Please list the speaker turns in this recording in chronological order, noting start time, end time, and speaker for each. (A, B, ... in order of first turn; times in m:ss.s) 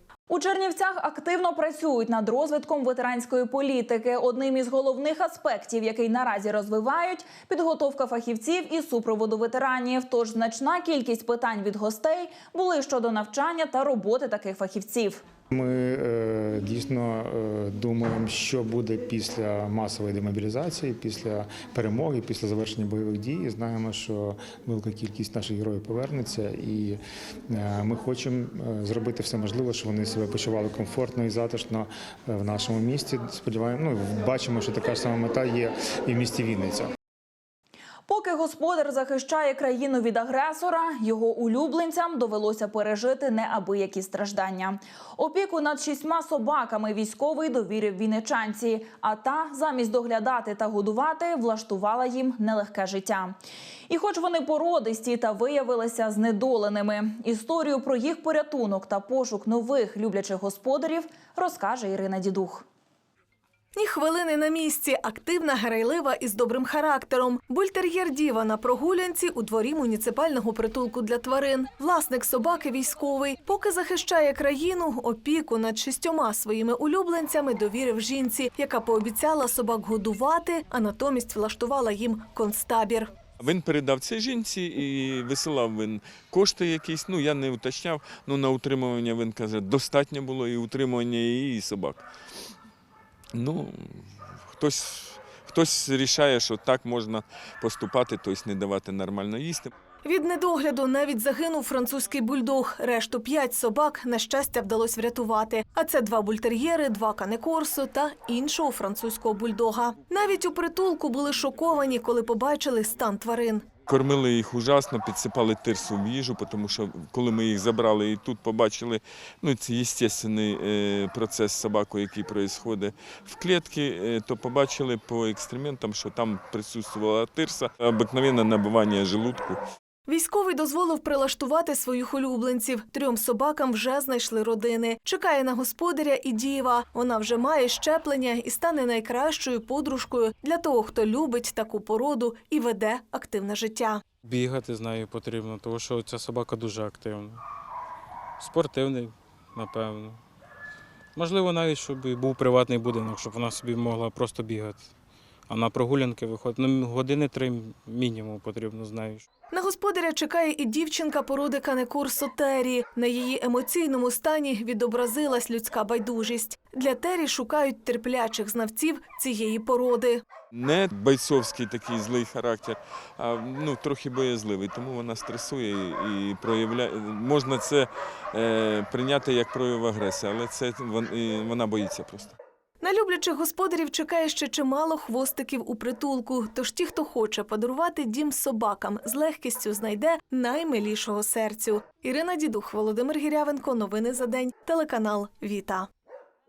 0:00.3-0:15.2 A
0:15.5-0:36.9 B
0:38.1-0:53.4 A
0:53.9-1:02.6 A
1:03.8-1:23.1 C
1:23.4-1:32.0 D
1:33.3-1:39.7 D
1:40.0-1:53.7 C
1:53.8-2:09.6 D
2:10.1-2:24.0 C
2:24.2-2:27.4 E
2:28.4-2:30.2 E
2:31.2-2:34.9 E
2:35.5-2:39.3 E
2:39.5-2:50.2 C
2:50.5-3:02.4 D
3:02.8-3:15.9 C